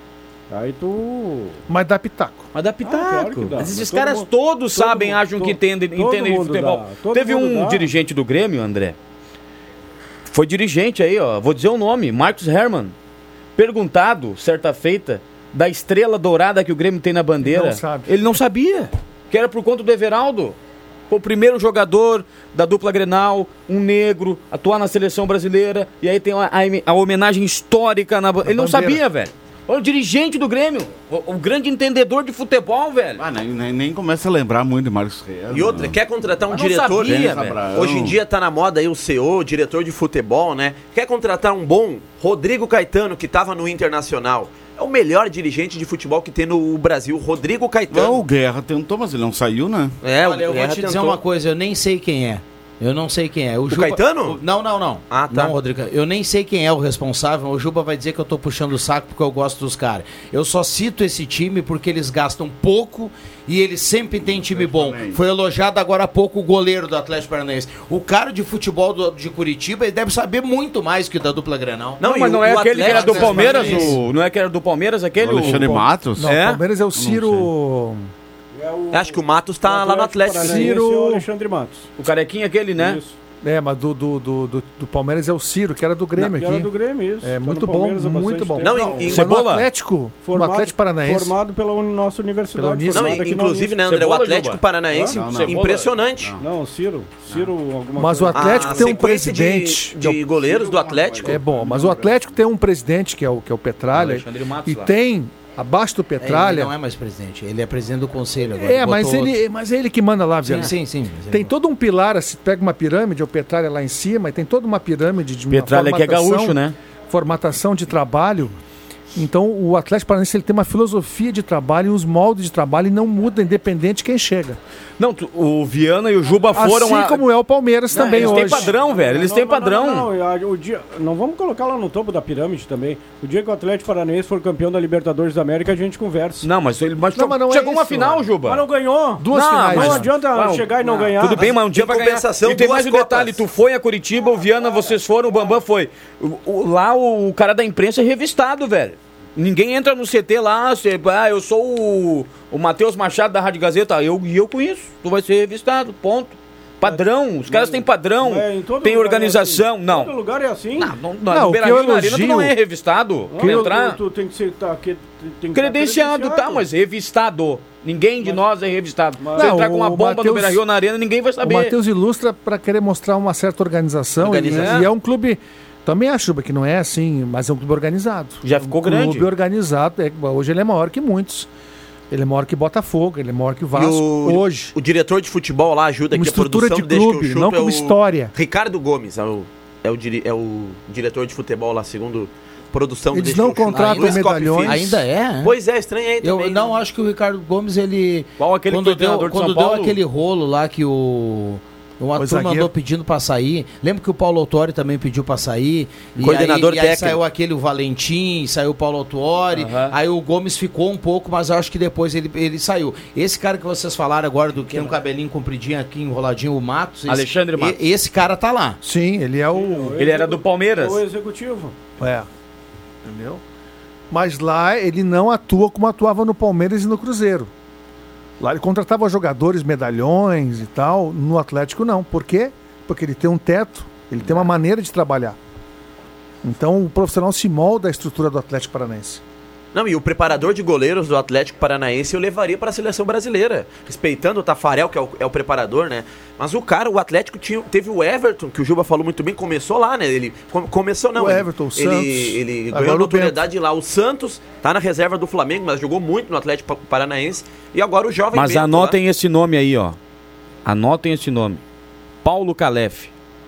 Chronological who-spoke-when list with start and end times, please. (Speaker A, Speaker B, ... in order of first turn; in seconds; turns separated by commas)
Speaker A: 0.5-1.6, Speaker B: 1.7-2.5, Speaker C: 2.5-8.9, Speaker A: 2.8-7.9, Speaker C: 10.3-12.9, Speaker C: 13.6-20.6, Speaker B: 17.4-18.4, Speaker C: 21.1-33.2, Speaker B: 28.4-29.0, Speaker D: 33.2-36.0, Speaker E: 35.5-48.2, Speaker C: 36.5-37.5, Speaker D: 37.0-38.2, Speaker D: 47.9-50.0, Speaker E: 50.0-51.2, Speaker F: 50.2-72.0, Speaker E: 53.7-54.4, Speaker E: 55.1-55.5, Speaker D: 64.2-65.2, Speaker E: 72.0-73.9, Speaker C: 72.0-76.6, Speaker F: 72.8-74.0, Speaker D: 75.2-76.3, Speaker B: 76.2-78.1, Speaker D: 77.0-77.5, Speaker A: 78.5-81.8, Speaker E: 78.9-80.8, Speaker B: 80.4-81.3, Speaker C: 82.0-83.0, Speaker A: 82.8-83.1, Speaker B: 83.4-86.7, Speaker A: 86.2-89.2, Speaker B: 87.2-91.3, Speaker E: 88.6-89.3, Speaker C: 89.1-89.7, Speaker A: 90.2-93.8, Speaker B: 92.5-93.2, Speaker E: 92.9-96.3, Speaker C: 93.9-94.6, Speaker D: 95.1-95.7, Speaker C: 95.2-95.9, Speaker A: 96.4-99.0, Speaker B: 98.0-100.2, Speaker E: 98.3-101.4, Speaker D: 100.4-102.2, Speaker B: 101.2-106.7, Speaker C: 103.9-104.9, Speaker F: 106.2-109.4, Speaker B: 108.6-110.7, Speaker C: 110.5-110.7, Speaker F: 110.5-111.5, Speaker B: 111.3-116.6, Speaker C: 115.5-116.7, Speaker B: 117.1-118.5, Speaker B: 119.1-124.6, Speaker C: 125.0-127.2, Speaker B: 126.5-128.7, Speaker C: 127.9-130.1, Speaker A: 127.9-136.5, Speaker C: 136.4-138.7, Speaker B: 137.1-138.3, Speaker A: 138.4-141.5, Speaker B: 139.2-140.1, Speaker C: 139.3-160.1, Speaker E: 141.4-143.4, Speaker A: 156.8-160.9, Speaker C: 160.8-164.0, Speaker B: 161.3-162.6, Speaker A: 163.3-166.6, Speaker C: 165.5-171.7, Speaker A: 169.2-169.6, Speaker B: 169.4-170.6, Speaker B: 171.4-181.5, Speaker E: 174.2-174.9, Speaker C: 174.5-174.9, Speaker C: 178.4-179.3, Speaker B: 182.1-184.7, Speaker E: 183.7-196.7, Speaker B: 186.1-188.3, Speaker B: 193.1-195.1, Speaker F: 193.7-195.5, Speaker F: 196.2-218.8, Speaker C: 198.4-200.0, Speaker B: 202.2-202.7, Speaker E: 206.2-207.2, Speaker C: 209.5-209.9, Speaker C: 217.1-217.8, Speaker B: 218.8-220.0, Speaker A: 219.5-221.7, Speaker C: 220.0-221.0, Speaker B: 222.0-222.3, Speaker B: 223.1-223.4, Speaker B: 224.1-227.5, Speaker B: 228.4-235.4, Speaker B: 236.4-239.2, Speaker E: 239.7-259.0, Speaker B: 251.1-253.4, Speaker C: 258.3-260.0, Speaker C: 260.6-261.6, Speaker C: 262.2-263.1